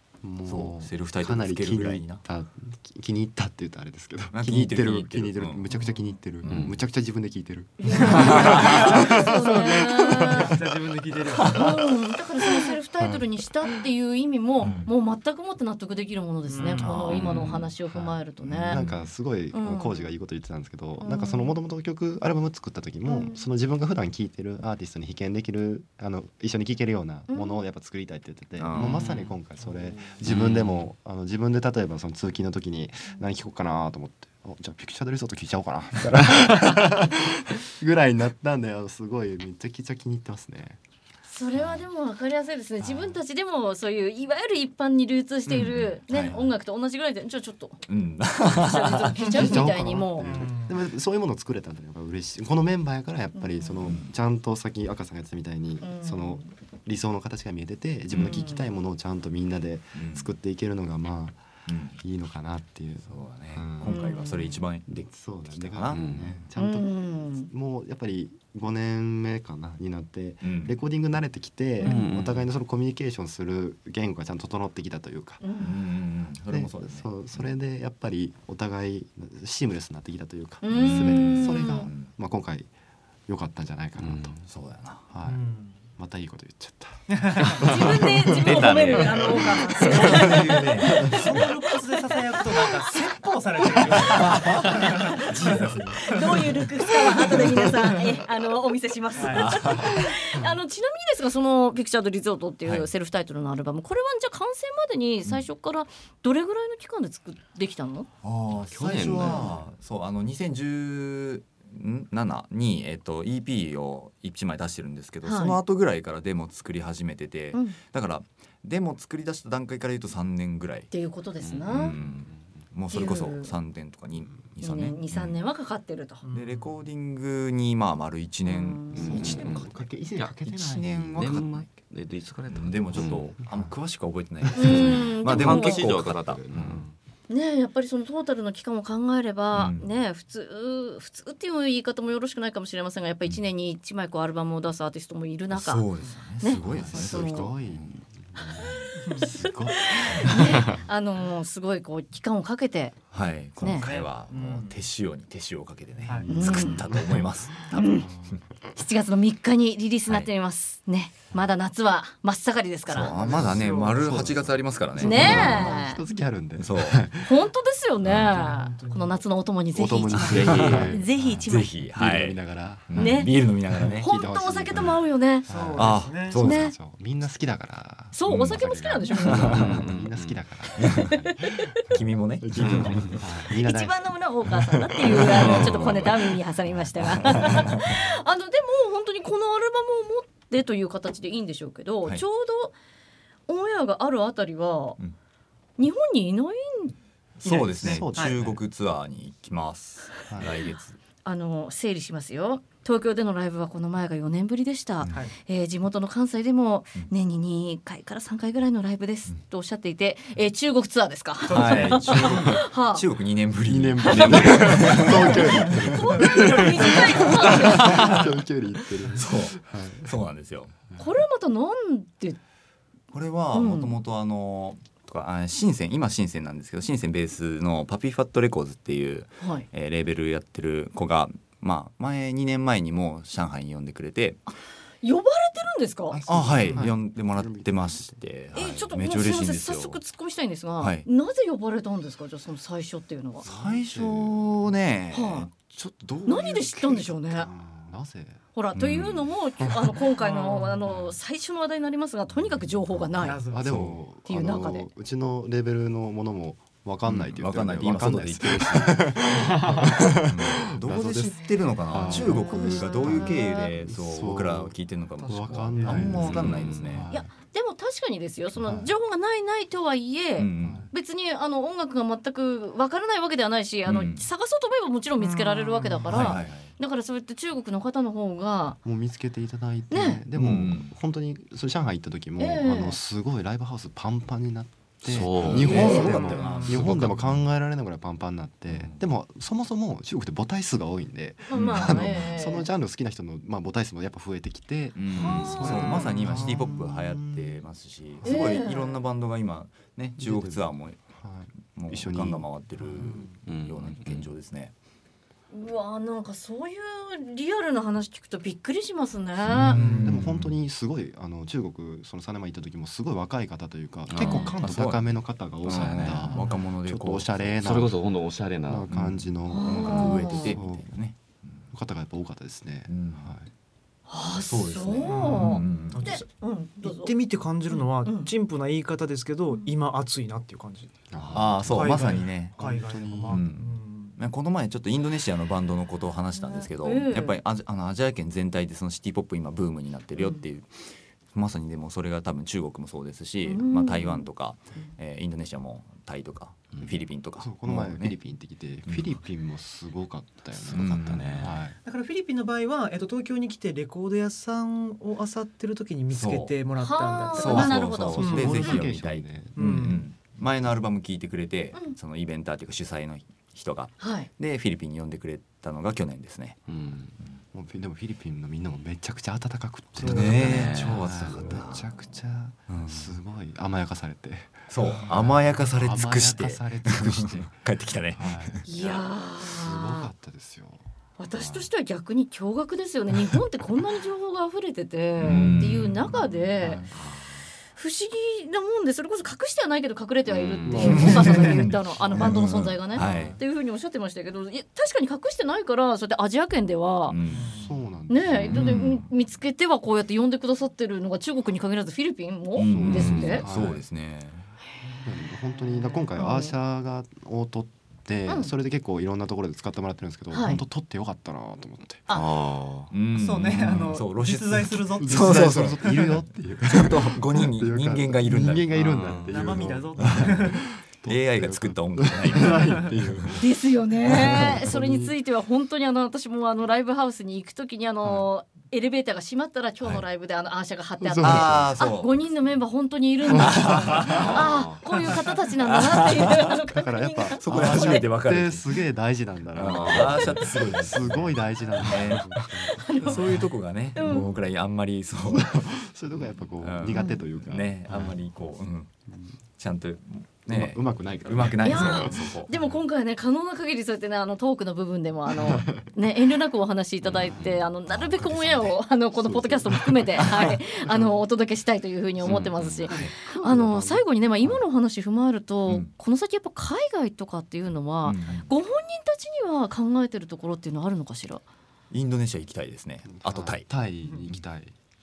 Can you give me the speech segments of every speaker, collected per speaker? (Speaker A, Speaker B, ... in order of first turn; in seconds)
Speaker A: 0.2-10.7, 14.6-14.9, 16.9-40.8, 49.3-61.4, 61.9-64.1, 64.9-75.4, 76.5-82.7, 83.3-84.4, 85.1-85.4, 86.0-90.3, 129.0-131.4, 146.6-150.8, 156.1-158.4, 163.2-167.3, 169.7-171.4, 171.9-181.6, 182.4-185.9, 187.2-187.7, 197.8-198.6, 200.3-200.6, 213.7-220.1, 236.1-238.2, 243.4-244.7, 247.3-248.4, 253.3-267.3, 268.6-268.9, 270.6-270.9, 278.8-297.6, 298.2-298.6, 300.2-303.3, 309.7-318.0, 318.7-320.9, 321.7-323.5, 331.1-333.4, 347.4-351.8, 358.2-359.7, 367.5-377.6, 378.1-378.7, 379.4-380.9, 385.3-385.6, 386.6-386.9, 390.7-392.4, 393.0-393.4, 397.5-398.8, 402.6-403.8, 405.0-412.1, 415.0-423.5, 424.0-425.1, 431.0-431.7, 433.3-434.3, 436.7-443.4, 445.3-448.1, 450.5-452.3, 455.4-455.8, 459.2-461.2, 463.3-464.6, 473.1-474.7
Speaker B: 0.5-2.2, 4.3-5.7, 6.4-6.7, 8.2-8.9, 14.6-14.9, 16.8-17.7, 18.5-19.1, 28.6-29.1, 45.5-46.4, 47.9-49.5, 53.8-54.1, 58.1-58.5, 60.0-60.3, 61.7-62.0, 63.0-66.5, 70.4-70.8, 75.6-77.5, 80.7-82.1, 84.5-85.0, 89.8-91.4, 94.2-96.4, 99.3-100.1, 108.2-120.9, 121.7-125.4, 126.3-129.7, 130.5-131.7, 132.5-136.8, 139.5-139.9, 145.5-148.0, 148.6-148.9, 153.1-158.1, 162.9-165.7, 166.6-167.0, 168.0-168.3, 170.2-174.1, 175.7-176.7, 178.3-178.6, 179.2-179.8, 180.8-181.1, 181.9-183.1, 185.5-185.9, 187.2-188.0, 197.4-201.0, 211.5-216.2, 216.8-218.1, 219.1-220.9, 223.1-234.4, 236.3-240.0, 240.8-241.1, 243.4-247.1, 248.8-249.3, 253.7-254.0, 257.1-267.1, 270.4-270.9, 273.9-274.3, 276.1-276.7, 280.4-280.9, 285.4-287.4, 288.7-289.0, 291.5-292.3, 294.9-301.0, 301.7-304.7, 309.4-310.6, 314.3-315.0, 315.6-317.7, 318.9-321.6, 322.9-323.3, 324.4-326.1, 331.3-332.6, 333.3-348.1, 348.9-349.2, 350.6-351.6, 356.1-356.6, 357.3-366.6, 370.0-371.9, 372.7-373.2, 374.7-378.6, 385.2-386.2, 390.8-393.4, 397.1-397.5, 398.3-399.1, 402.6-404.4, 412.9-418.7, 420.0-420.5, 421.1-423.3, 431.2-432.1, 433.4-434.4, 435.7-436.5, 437.4-438.8, 439.5-445.8, 446.6-449.0, 449.6-452.5, 457.9-458.7, 460.2-460.5, 462.9-463.2, 468.0-468.4, 471.9-473.7
Speaker C: 6.5-6.8, 28.7-29.3, 30.3-30.7, 65.9-66.3, 71.8-72.5, 84.0-84.4, 87.6-89.9, 108.6-109.5, 121.5-122.4, 128.9-130.3, 131.2-133.3, 134.5-136.9, 170.3-171.0, 179.3-180.4, 182.6-183.2, 185.3-186.2, 266.4-267.0, 285.1-285.9, 303.5-304.3, 314.1-314.6, 315.7-316.2, 317.6-318.9, 351.1-351.5, 366.7-367.1, 370.3-371.5, 386.9-387.5, 390.3-391.0, 402.9-403.4, 412.1-412.9, 418.7-419.6, 434.0-434.8, 439.7-440.2, 457.4-457.6, 462.2-462.9
Speaker D: 7.8-10.6, 11.4-18.8, 19.5-20.1, 21.0-21.6, 23.1-23.4, 27.3-27.6, 41.3-47.8, 48.4-50.4, 53.4-53.8, 55.8-56.5, 58.2-58.7, 63.8-64.6, 66.6-67.5, 71.8-72.1, 75.4-75.8, 80.6-81.9, 87.6-93.0, 93.7-108.1, 115.2-115.6, 120.9-122.0, 122.9-123.5, 124.6-126.2, 128.4-129.3, 134.6-135.9, 137.3-145.9, 146.4-147.5, 148.6-153.0, 153.6-153.9, 156.3-156.8, 157.7-158.1, 158.7-163.2, 165.0-166.0, 167.2-171.7, 173.0-173.3, 174.0-175.5, 176.3-176.7, 178.1-179.7, 180.7-181.8, 183.5-192.7, 193.5-195.0, 195.8-197.0, 201.2-213.1, 214.1-218.3, 221.0-222.4, 223.5-223.9, 229.4-229.7, 235.0-236.2, 238.5-243.5, 245.1-245.5, 246.2-247.5, 248.6-253.4, 254.2-254.9, 262.1-263.7, 265.9-266.4, 267.1-278.8, 279.9-280.2, 282.4-283.0, 285.6-286.5, 291.4-292.7, 295.1-296.4, 298.2-299.0, 305.5-309.8, 314.2-314.6, 319.5-320.6, 324.1-327.1, 327.7-328.3, 336.4-337.4, 340.2-340.4, 343.4-344.9, 356.8-358.9, 364.0-364.3, 378.7-380.1, 381.2-386.8, 387.8-397.2, 398.1-403.5, 406.1-406.5, 408.3-408.5, 410.3-410.6, 423.4-438.1, 442.7-443.4, 443.9-444.3, 446.9-447.2, 451.6-471.4
Speaker E: 8.2-11.8, 16.5-17.4, 50.2-50.8, 85.2-85.8, 87.1-87.7, 90.9-96.2, 97.0-97.4, 99.2-99.8, 126.2-126.7, 149.0-149.3, 153.8-154.8, 156.1-156.3, 163.2-164.1, 168.2-169.2, 175.5-176.4, 197.4-198.4, 211.5-212.6, 250.1-251.0, 253.2-253.8, 265.7-266.3, 275.2-276.3, 285.9-286.6, 303.0-303.3, 309.7-310.2, 325.1-326.3, 326.8-331.0, 331.7-334.2, 351.8-358.6, 359.6-360.0, 370.0-370.4, 397.3-397.8, 413.1-416.0, 419.3-420.6